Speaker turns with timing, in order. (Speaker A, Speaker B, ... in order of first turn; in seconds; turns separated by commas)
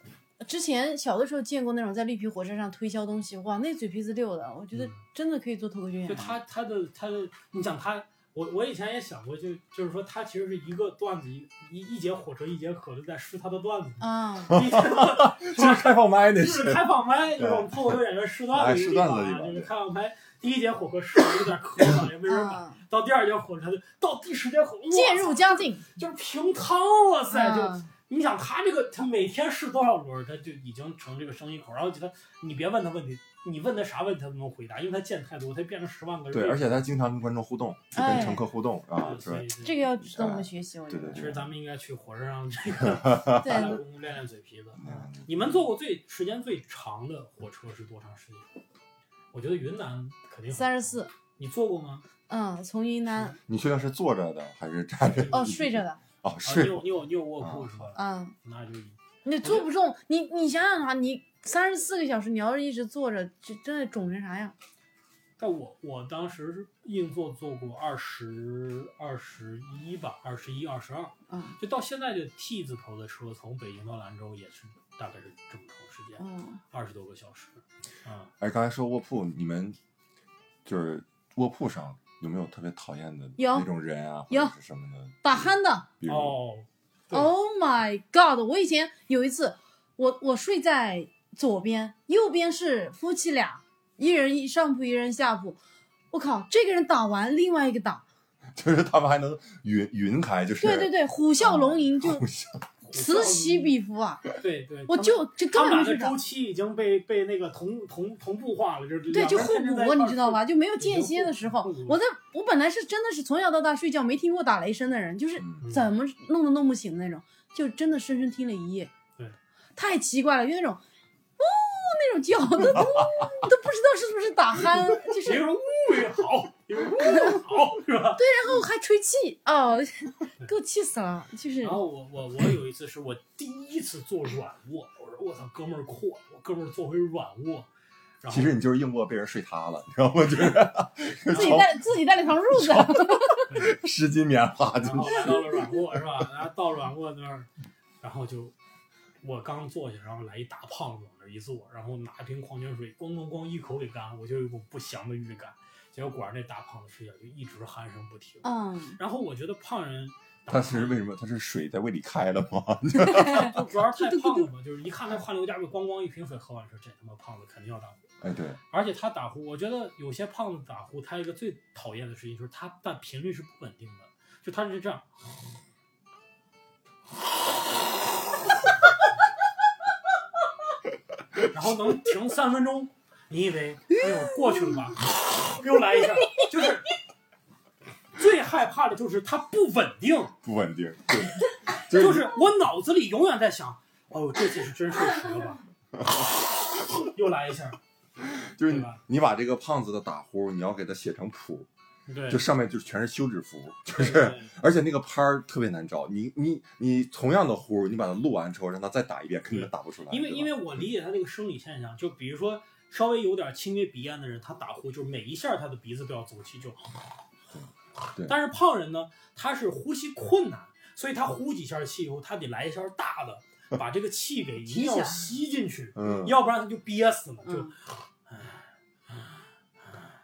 Speaker A: 0.4-6.4, Speaker B: 6.0-36.9, Speaker A: 14.0-14.6, Speaker C: 14.5-18.0, Speaker C: 18.5-19.7, Speaker A: 22.3-22.8, Speaker A: 24.9-25.8, Speaker A: 27.3-27.9, Speaker C: 36.3-41.5, Speaker A: 37.9-38.4, Speaker B: 39.0-39.9, Speaker A: 39.6-41.2, Speaker B: 41.1-48.5, Speaker C: 42.9-43.7, Speaker A: 43.4-43.8, Speaker C: 44.8-45.6, Speaker B: 49.3-52.0, Speaker A: 50.5-51.1, Speaker A: 52.3-53.4, Speaker C: 53.5-57.9, Speaker B: 55.0-55.8, Speaker A: 55.3-56.0, Speaker B: 56.4-59.7, Speaker A: 58.0-58.3, Speaker A: 59.2-64.5, Speaker B: 65.4-78.3, Speaker A: 71.3-71.6, Speaker A: 76.2-76.6, Speaker C: 78.4-79.8, Speaker C: 80.7-85.5, Speaker A: 83.4-83.7, Speaker A: 85.2-85.9, Speaker C: 86.0-86.4, Speaker B: 86.0-87.3, Speaker A: 87.1-95.6, Speaker A: 96.1-98.0, Speaker C: 98.5-102.7, Speaker A: 100.6-102.2, Speaker B: 102.8-103.8, Speaker A: 102.9-104.3, Speaker B: 104.4-112.0, Speaker A: 104.9-106.2, Speaker A: 109.1-118.9, Speaker C: 115.4-115.7, Speaker B: 115.6-115.9, Speaker A: 119.8-120.8, Speaker A: 121.4-125.5, Speaker C: 122.8-123.3, Speaker B: 125.2-128.2, Speaker A: 127.0-127.4, Speaker A: 128.2-131.8, Speaker B: 131.6-137.7, Speaker B: 138.2-138.5, Speaker C: 138.3-141.8, Speaker B: 141.3-141.7, Speaker A: 141.3-143.5, Speaker C: 142.5-145.5, Speaker B: 143.5-143.8, Speaker B: 144.8-147.5, Speaker B: 148.0-148.6, Speaker B: 149.2-161.0, Speaker A: 158.4-159.0, Speaker C: 160.5-163.6, Speaker A: 163.0-164.5, Speaker B: 163.3-168.0, Speaker C: 168.2-168.6, Speaker B: 168.7-175.2, Speaker B: 181.5-186.9, Speaker A: 183.9-184.8, Speaker B: 188.2-190.3, Speaker C: 190.4-192.3, Speaker B: 191.9-195.6, Speaker C: 195.9-196.3, Speaker B: 196.9-197.8, Speaker C: 198.4-201.7, Speaker B: 198.6-199.0, Speaker B: 202.1-202.4, Speaker C: 202.3-210.6, Speaker B: 203.9-204.6, Speaker B: 209.5-217.0, Speaker C: 217.5-218.4, Speaker B: 218.2-230.1, Speaker A: 224.7-225.2, Speaker C: 225.9-226.4, Speaker A: 227.4-227.7